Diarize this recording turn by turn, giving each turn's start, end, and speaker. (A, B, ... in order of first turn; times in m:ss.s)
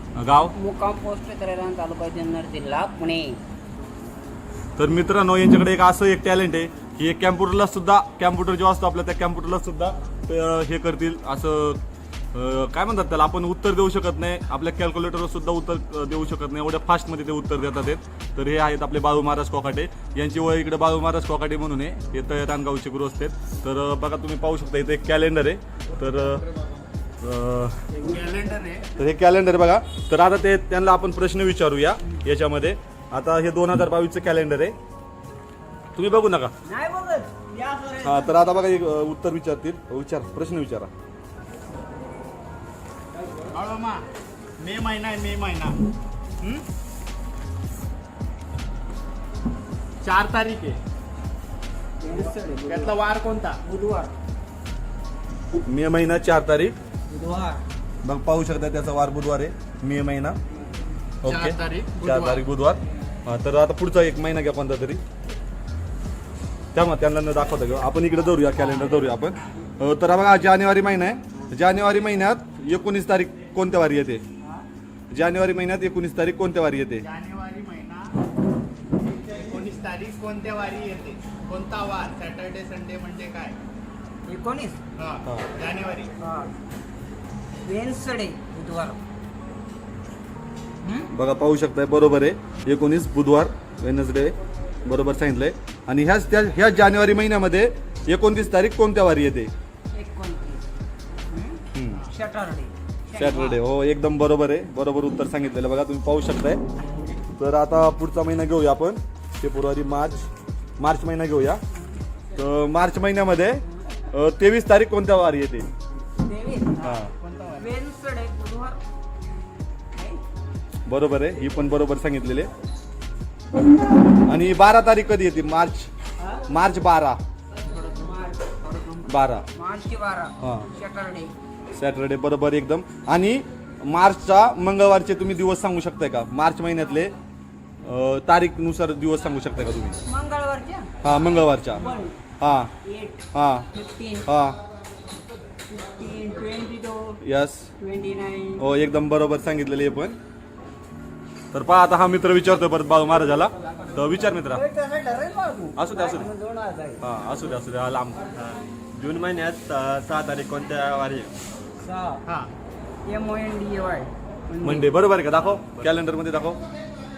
0:00.2-0:00.5 A
0:00.5-0:03.4 B
0:04.8-0:11.8 A
0:12.3-0:26.4 A
0:27.2-0:27.8 A
0:27.9-0:28.9 C
0:29.0-0:34.7 A
0:36.0-0:36.5 A
0:36.6-0:38.6 B
0:38.0-0:40.9 A
0:43.2-0:43.5 B
0:43.5-0:44.0 C
0:44.6-0:45.8 C
0:50.0-0:50.8 C
0:52.0-0:52.9 B
0:52.7-0:53.6 C
0:53.6-0:54.2 B
0:55.6-0:56.7 A
0:57.1-0:57.6 B
0:58.0-1:00.4 A
1:01.2-1:05.0 A
1:01.2-1:02.4 C
1:06.7-1:14.2 A
1:15.1-1:17.0 A
1:17.0-1:18.1 C
1:19.0-1:23.6 C
1:24.3-1:24.8 B
1:25.0-1:26.1 C
1:26.2-1:26.5 B
1:27.6-1:29.0 B
1:30.8-1:31.1 B
1:31.1-1:39.5 A
1:39.9-1:40.6 B
1:41.3-1:43.6 B
1:41.7-1:42.0 A
1:43.1-1:46.6 A
1:47.4-1:50.3 A
1:50.8-1:51.6 A
1:52.4-1:55.7 A
1:56.2-1:56.8 B
1:56.8-1:57.7 C
1:56.8-1:57.1 A
1:57.6-1:58.8 B
1:59.9-2:00.2 B
2:00.9-2:02.5 A
2:04.3-2:05.9 A
2:06.5-2:07.2 A
2:07.6-2:09.1 C
2:08.0-2:08.4 B
2:09.1-2:09.4 A
2:09.5-2:11.3 B
2:10.4-2:10.7 A
2:11.7-2:17.1 A
2:17.8-2:20.0 A
2:20.0-2:20.9 B
2:21.0-2:21.8 A
2:21.6-2:22.2 B
2:22.4-2:22.7 A
2:22.8-2:24.2 B
2:23.3-2:23.7 A
2:24.2-2:24.6 A
2:25.7-2:27.2 B
2:27.2-2:27.7 A
2:27.8-2:28.6 B
2:28.6-2:30.2 A
2:31.5-2:34.6 A
2:34.5-2:37.0 B
2:35.8-2:36.3 A
2:37.0-2:38.2 A
2:38.4-2:41.3 D
2:41.8-2:42.2 B
2:42.2-2:42.5 C
2:43.0-2:44.9 B
2:44.6-2:46.6 A